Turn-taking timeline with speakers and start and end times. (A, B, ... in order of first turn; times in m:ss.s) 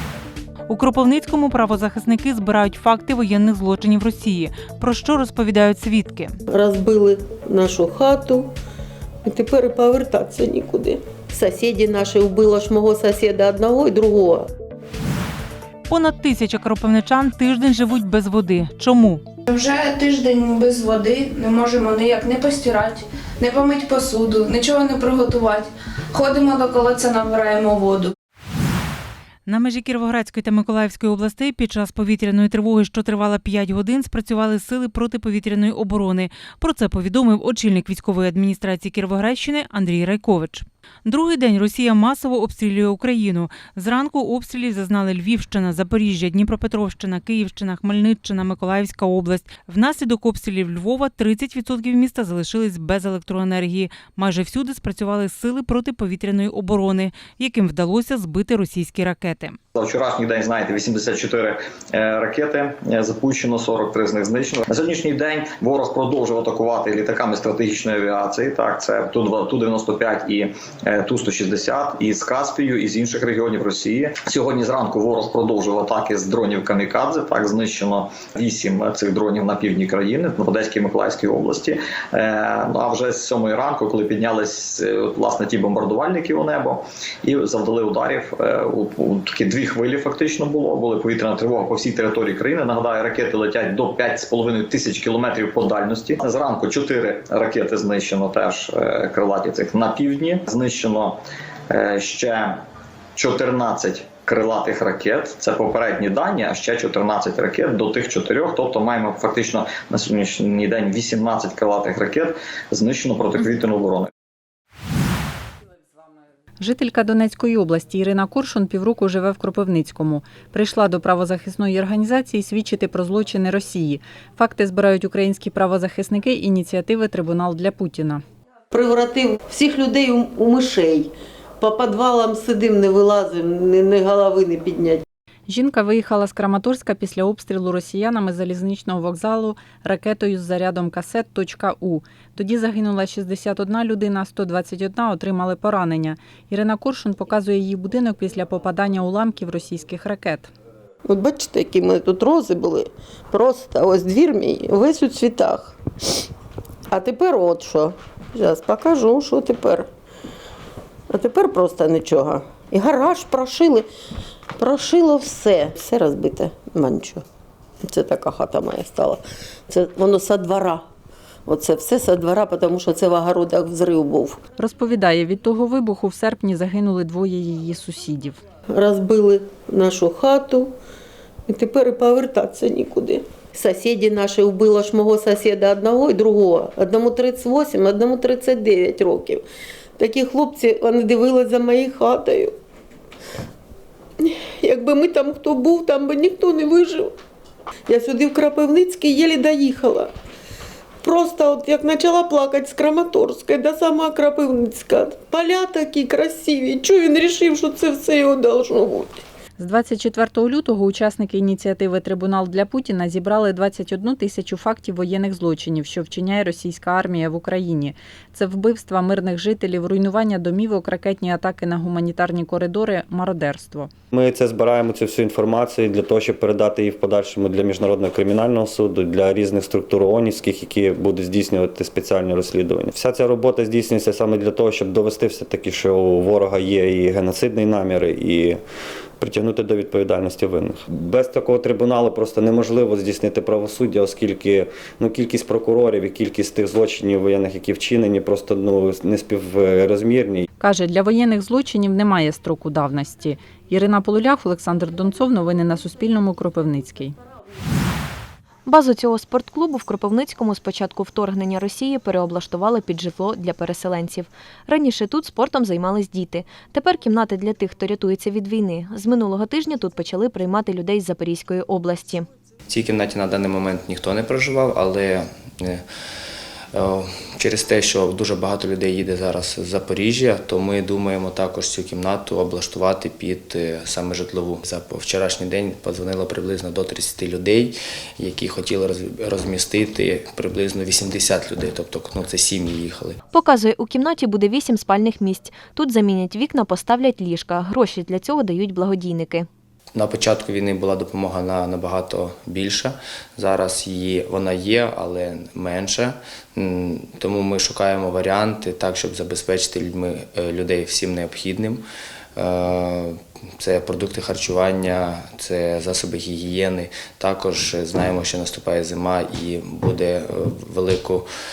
0:00.7-0:06.4 A
0:06.5-0:08.5 B
0:09.2-0:14.5 B
0:15.9-0:19.2 A
0:19.5-0:28.1 C
0:29.4-0:59.6 A
0:59.7-1:41.2 D
1:41.7-1:42.6 D
1:43.2-1:54.1 D
1:56.6-2:08.2 E
2:08.7-2:15.0 B
2:15.5-2:30.5 E
2:31.0-2:35.8 B
2:36.9-2:39.9 B
2:41.1-2:43.9 B
2:44.6-2:47.2 B
2:47.8-2:50.8 B
2:51.4-2:54.4 B
2:54.6-2:58.4 E
2:58.7-3:00.7 B
3:01.5-3:09.4 B
3:10.0-3:12.6 B
3:14.2-3:17.1 B
3:17.9-3:20.1 B
3:21.0-3:29.2 B
3:29.6-3:43.9 E
3:44.1-3:58.6 F
3:59.2-4:10.4 F
4:10.6-4:17.2 E
4:18.6-4:32.3 G
4:32.7-4:35.8 H
4:36.7-4:53.2 H
4:53.3-4:59.5 G
4:59.9-5:11.8 H
5:12.4-5:21.3 H